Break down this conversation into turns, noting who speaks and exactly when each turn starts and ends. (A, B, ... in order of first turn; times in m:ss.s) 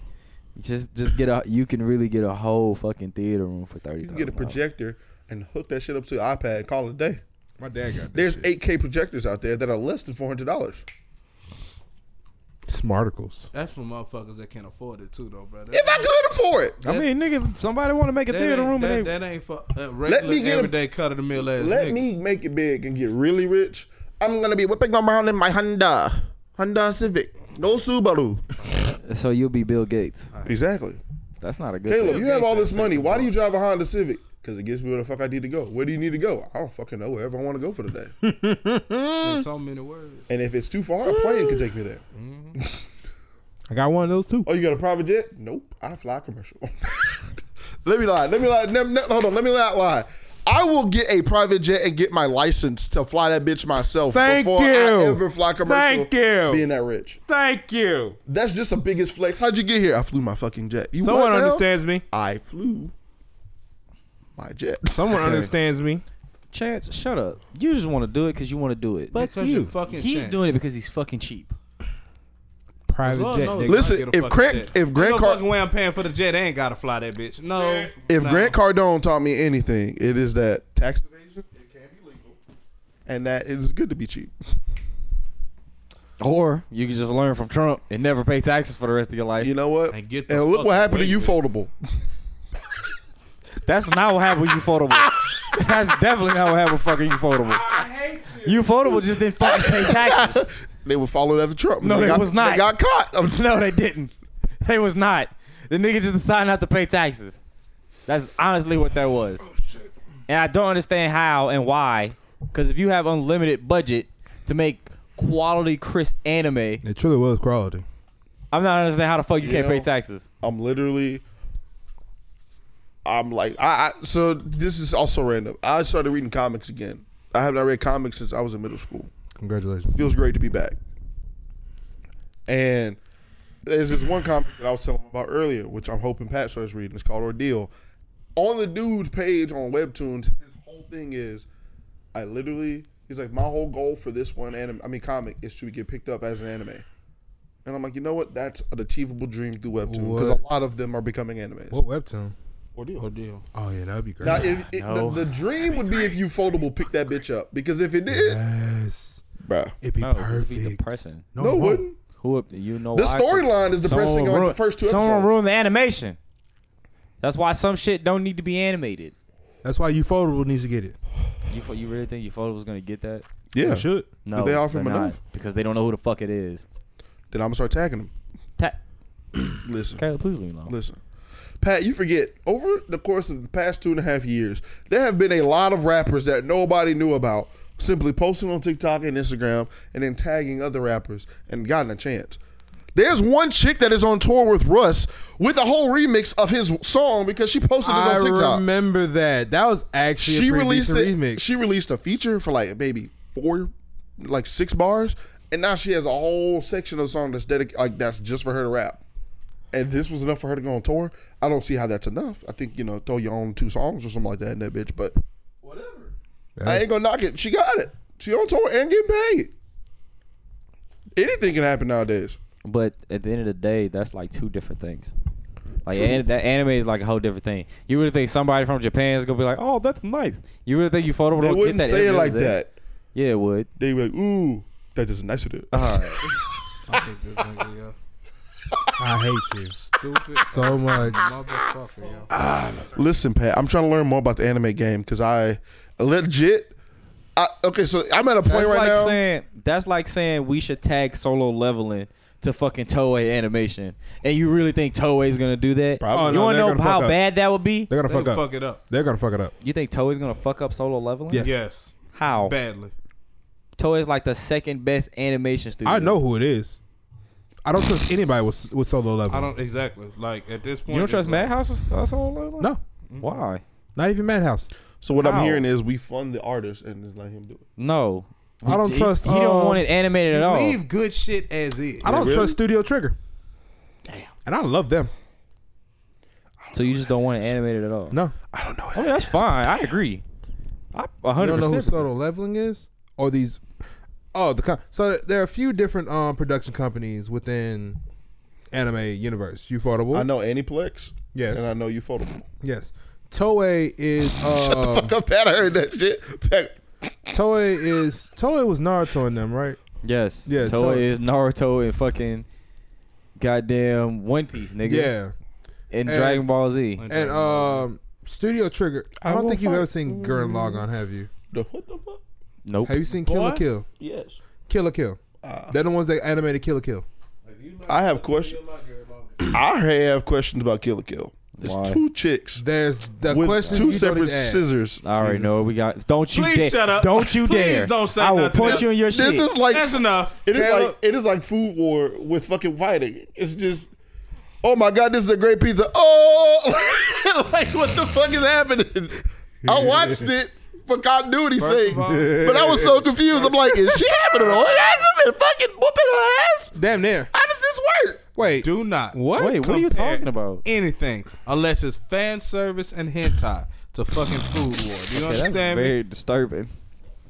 0:00.6-0:04.6 A
0:04.0-0:07.2 B
0:07.6-0:08.5 C
0:08.1-0:10.8 B
0:12.7-0:13.5 C
0:13.5-0:16.1 D
0:15.7-0:16.8 B
0:16.8-0:17.1 D
0:16.8-0:19.1 A
0:18.3-0:22.1 D
0:20.1-0:20.7 B
0:21.6-0:28.5 B
0:29.0-0:30.3 A
0:30.3-0:30.6 D
0:30.5-0:31.0 B
0:31.4-0:32.3 A
0:31.9-0:38.2 B
0:32.0-0:33.3 D
0:38.2-0:39.5 C
0:39.2-0:40.3 D
0:40.3-0:42.0 B
0:41.0-0:41.6 C
0:42.2-0:42.6 D
0:43.7-0:44.5 C
0:44.4-0:47.2 B
0:47.8-0:57.2 B
0:54.1-0:56.6 C
0:57.3-0:58.2 C
0:58.3-1:02.9 B
1:01.0-1:02.0 C
1:04.4-1:05.5 B
1:04.9-1:06.0 C
1:06.5-1:09.2 A
1:09.1-1:09.7 C
1:09.1-1:10.4 D
1:09.9-1:11.6 A
1:12.9-1:13.9 C
1:13.0-1:18.6 D
1:13.7-1:15.4 B
1:17.6-1:17.9 C
1:18.1-1:22.4 B
1:23.1-1:24.3 B
1:26.2-1:29.5 A
1:29.4-1:31.7 B
1:29.9-1:31.4 D
1:33.6-1:37.7 A
1:37.4-1:38.9 C
1:38.4-1:40.5 A
1:39.4-1:43.4 B
1:41.8-1:42.7 A
1:43.2-1:47.4 A
1:48.1-1:49.4 A
1:49.6-1:49.9 B
1:50.3-1:56.8 A
1:56.8-1:57.8 C
1:58.5-2:00.3 A
1:59.4-1:59.9 B
2:00.4-2:01.2 B
2:03.0-2:09.1 B
2:09.4-2:10.0 C
2:09.9-2:10.8 B
2:12.5-2:13.0 B
2:13.6-2:17.7 B
2:18.4-2:21.5 B
2:22.1-2:26.8 B
2:27.6-2:31.8 B
2:29.9-2:30.4 C
2:31.7-2:32.4 C
2:32.8-2:33.1 B
2:33.0-2:33.4 D
2:33.5-2:34.5 C
2:34.2-2:38.4 B
2:34.3-2:35.3 A
2:38.1-2:39.2 C
2:39.4-2:39.8 B
2:39.8-2:41.9 C
2:40.0-2:41.3 A
2:41.4-2:42.0 B
2:42.2-2:46.2 A
2:42.9-2:45.3 B
2:47.2-2:49.1 A
2:49.6-2:51.0 C
2:51.5-2:53.2 A
2:53.5-2:55.2 B
2:53.6-2:54.1 C
2:54.2-2:56.6 A
2:57.3-2:58.1 B
2:59.6-3:00.0 B
3:00.0-3:00.7 A
3:00.7-3:01.0 B
3:01.6-3:12.4 B
3:13.0-3:18.6 B
3:17.8-3:21.6 C
3:20.2-3:29.0 B
3:29.7-3:36.1 B
3:36.6-3:36.8 C
3:36.6-3:39.5 B
3:41.2-3:42.4 B
3:42.6-3:45.1 A
3:45.8-3:52.6 A
3:45.9-3:46.2 B
3:51.4-3:52.7 B
3:53.2-3:53.7 A
3:53.8-3:56.5 B
3:55.7-3:56.3 A
3:56.9-3:58.0 D
3:59.0-3:59.8 C
3:59.8-4:02.3 D
4:00.4-4:01.4 C
4:02.3-4:03.0 C
4:02.9-4:06.8 B
4:07.4-4:09.2 B
4:08.5-4:17.9 A
4:16.0-4:16.5 B
4:16.1-4:17.2 C
4:17.9-4:19.5 C
4:18.1-4:18.8 D
4:19.6-4:21.5 A
4:21.3-4:21.6 C
4:21.4-4:22.9 D
4:22.2-4:22.6 A
4:23.8-4:26.2 A
4:25.8-4:26.8 C
4:27.6-4:29.5 C
4:29.3-4:31.5 D
4:30.9-4:33.6 A
4:34.0-4:34.7 C
4:35.0-4:37.6 B
4:35.2-4:35.6 A
4:37.8-4:40.8 A
4:38.6-4:39.8 C
4:40.3-4:42.1 D
4:42.0-4:42.6 B
4:42.0-4:43.2 C
4:44.5-4:45.1 C
4:46.7-4:48.2 A
4:48.1-4:49.9 C
4:49.0-4:50.2 A
4:50.9-4:52.1 A
4:51.4-4:53.6 C
4:54.3-4:58.0 C
4:58.7-5:00.3 C
5:00.1-5:02.5 B
5:01.3-5:01.7 C
5:02.6-5:05.1 C
5:04.4-5:06.8 B
5:07.3-5:09.8 C
5:10.0-5:12.5 A
5:10.5-5:11.1 C
5:13.4-5:15.1 A
5:14.8-5:15.3 C
5:15.9-5:17.0 A
5:16.1-5:16.4 C
5:17.0-5:17.8 D
5:17.1-5:21.3 C
5:19.2-5:20.8 B
5:21.5-5:22.2 B
5:22.6-5:23.0 A
5:22.8-5:23.9 C
5:23.2-5:23.6 D
5:24.0-5:24.4 B
5:24.7-5:25.2 C
5:25.4-5:25.8 B
5:25.7-5:27.0 C
5:27.5-5:29.5 D
5:27.9-5:28.6 B
5:29.4-5:32.6 B
5:31.6-5:32.0 A
5:32.6-5:34.6 C
5:33.2-5:35.5 B
5:33.6-5:33.9 A
5:35.0-5:39.5 A
5:36.3-5:38.9 D
5:38.6-5:43.9 B
5:39.7-5:40.4 D
5:40.5-5:41.0 C
5:44.6-5:56.8 B
5:49.7-5:50.2 C
5:51.6-5:52.8 D
5:52.0-5:54.0 C
5:56.8-5:57.3 C
5:57.3-5:58.3 B
5:58.4-5:59.6 C
5:58.6-6:06.0 D
5:59.4-6:00.6 A
6:05.1-6:06.7 A